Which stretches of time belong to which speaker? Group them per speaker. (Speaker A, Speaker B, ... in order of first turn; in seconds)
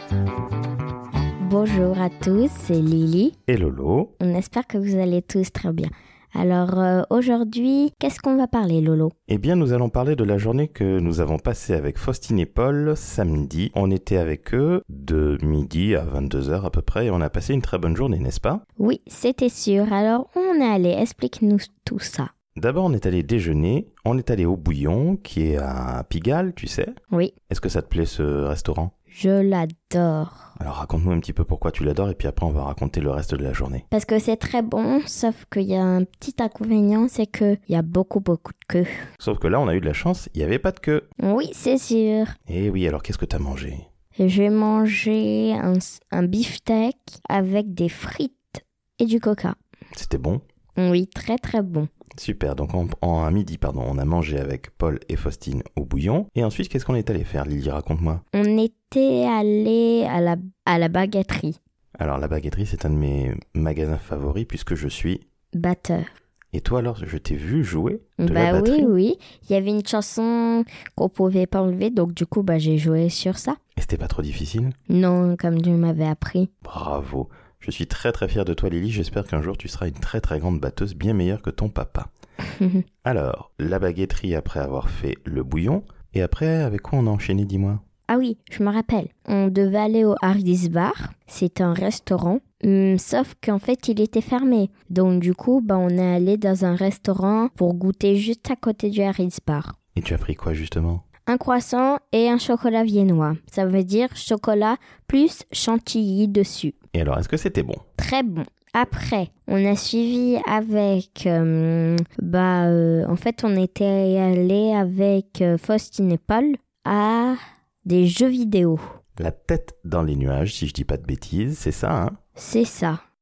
Speaker A: 1.4-3.3, 4.2-9.1, 18.8-22.3, 29.1-30.5, 33.9-38.9, 41.2-42.3, 44.1-49.5, 50.8-51.9, 58.3-61.6, 65.5-66.1, 68.2-73.6, 74.9-76.5, 82.4-82.8, 88.1-99.7, 101.3-106.7, 108.0-118.8, 122.4-123.0
Speaker B: 3.5-4.1, 9.3-18.6, 22.6-26.9, 27.5-28.9, 30.6-33.8, 39.2-41.0, 42.5-43.8, 49.9-50.4, 52.1-58.2, 62.0-65.2, 66.5-68.9, 73.8-74.8, 76.6-82.1, 83.0-87.8, 99.9-101.0, 106.9-107.8, 119.2-122.2